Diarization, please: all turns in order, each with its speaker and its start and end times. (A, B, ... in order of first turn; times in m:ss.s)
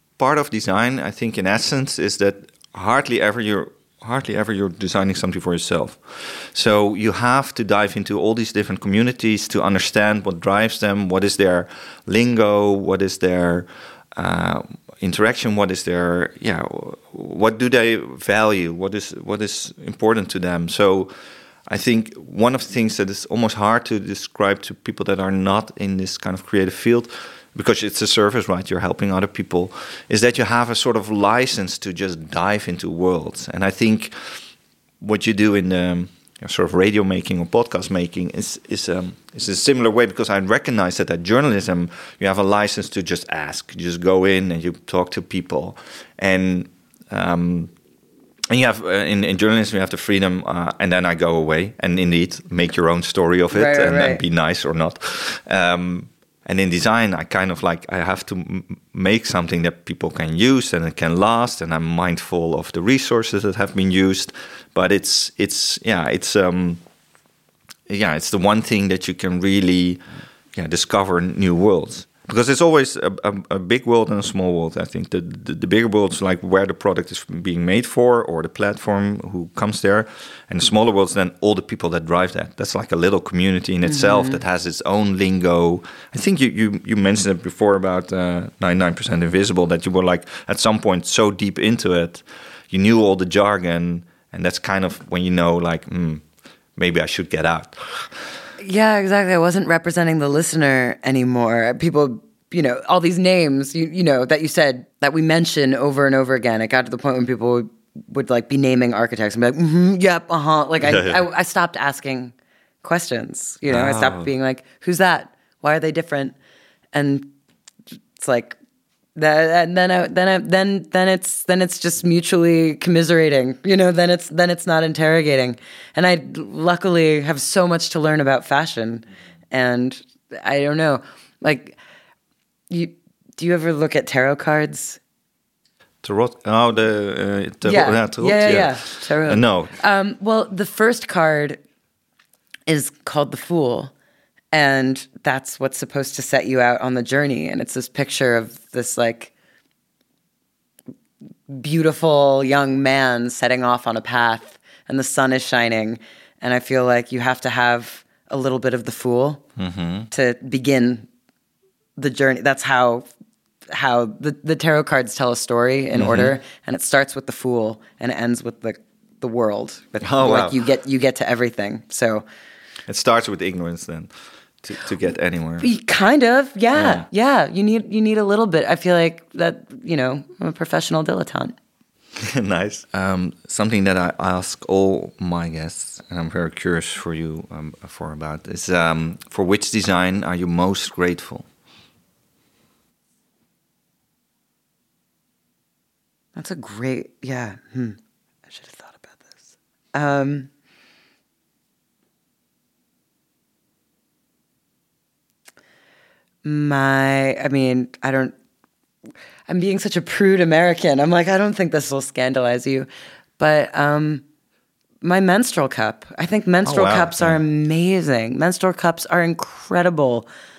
0:00.2-0:21.1 A
0:21.7-0:34.4 A
0:35.0-0:47.7 A
0:48.5-1:06.8 A
0:53.5-0:54.2 B
1:07.9-1:36.2 A
1:23.8-1:24.4 B
1:36.8-1:38.2 A
1:38.6-1:56.4 B
1:50.8-1:51.2 A
1:53.6-1:54.3 A
1:56.9-1:57.3 B
1:58.2-1:58.6 B
1:59.2-2:11.8 B
2:12.7-2:15.0 B
2:16.0-2:19.8 A
2:17.6-2:21.6 B
2:22.7-2:23.9 B
2:24.5-2:29.3 B
2:31.5-2:39.4 B
2:39.6-2:40.1 A
2:40.1-2:41.1 B
2:42.0-2:43.1 B
2:43.7-2:52.2 B
2:45.9-2:46.3 A
2:50.0-2:50.6 A
2:52.9-2:55.7 A
2:55.6-3:01.5 B
2:56.7-2:57.0 A
3:02.2-3:11.5 A
3:16.3-3:20.5 B
3:26.4-3:28.3 B
3:29.5-3:34.2 B
3:35.0-3:40.2 B
3:36.6-3:37.4 A